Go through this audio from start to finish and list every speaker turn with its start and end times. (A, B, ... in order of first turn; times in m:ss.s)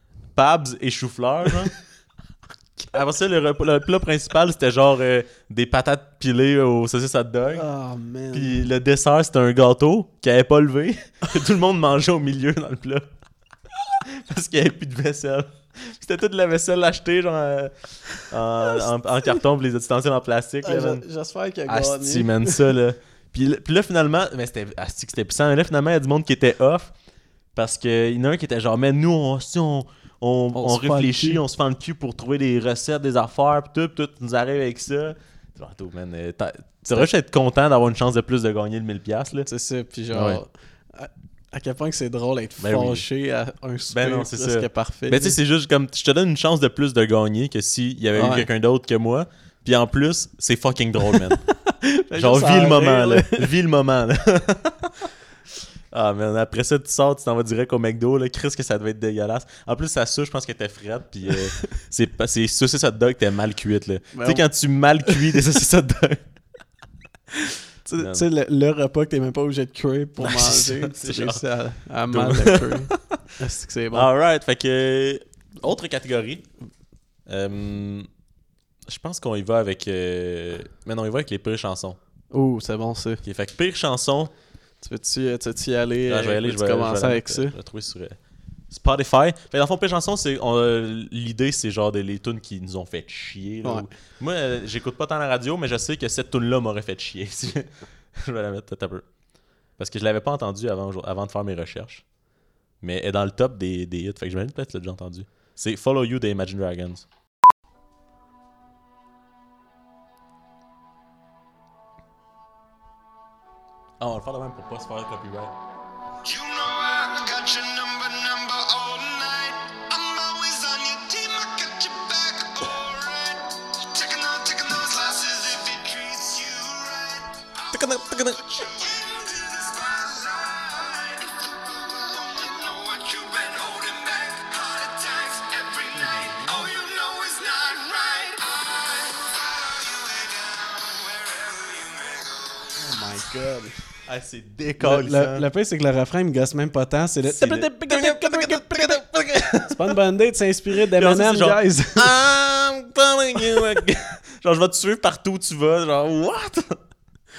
0:00.4-0:01.7 A
0:02.9-0:07.6 A
0:07.5-0:08.6 B
0:08.3-0:13.1 A
0:14.0-0:21.0 A
0:20.6-0:22.7 B
0:21.7-0:26.9 A
0:27.5-0:39.5 A
0:30.5-0:31.4 B
0:39.4-0:45.4 B
0:40.1-0:40.4 A
0:42.6-0:43.0 A
0:43.9-0:51.4 A
0:48.1-0:48.5 B
0:51.5-0:53.5 B
0:52.2-0:54.9 A
0:55.9-1:06.2 A
1:04.1-1:04.4 B
1:07.8-1:14.1 B
1:08.0-1:08.2 A
1:10.2-1:11.4 A
1:12.1-1:13.2 A
1:13.9-1:16.4 A
1:17.3-1:18.1 A
1:18.9-1:22.0 A
1:22.3-1:23.2 B
1:23.2-1:24.3 A
1:24.8-1:27.5 B
1:26.1-1:28.2 A
1:28.7-1:39.0 A
1:39.8-1:42.0 A
1:42.8-1:47.0 A
1:54.0-1:55.5 A
1:56.2-2:22.7 C
2:07.7-2:08.4 A
2:16.0-2:16.6 A
2:22.8-2:23.8 B
2:24.1-2:25.4 A
2:24.8-2:29.0 B
2:27.2-2:29.9 A
2:29.7-2:32.1 B
2:30.9-2:36.8 A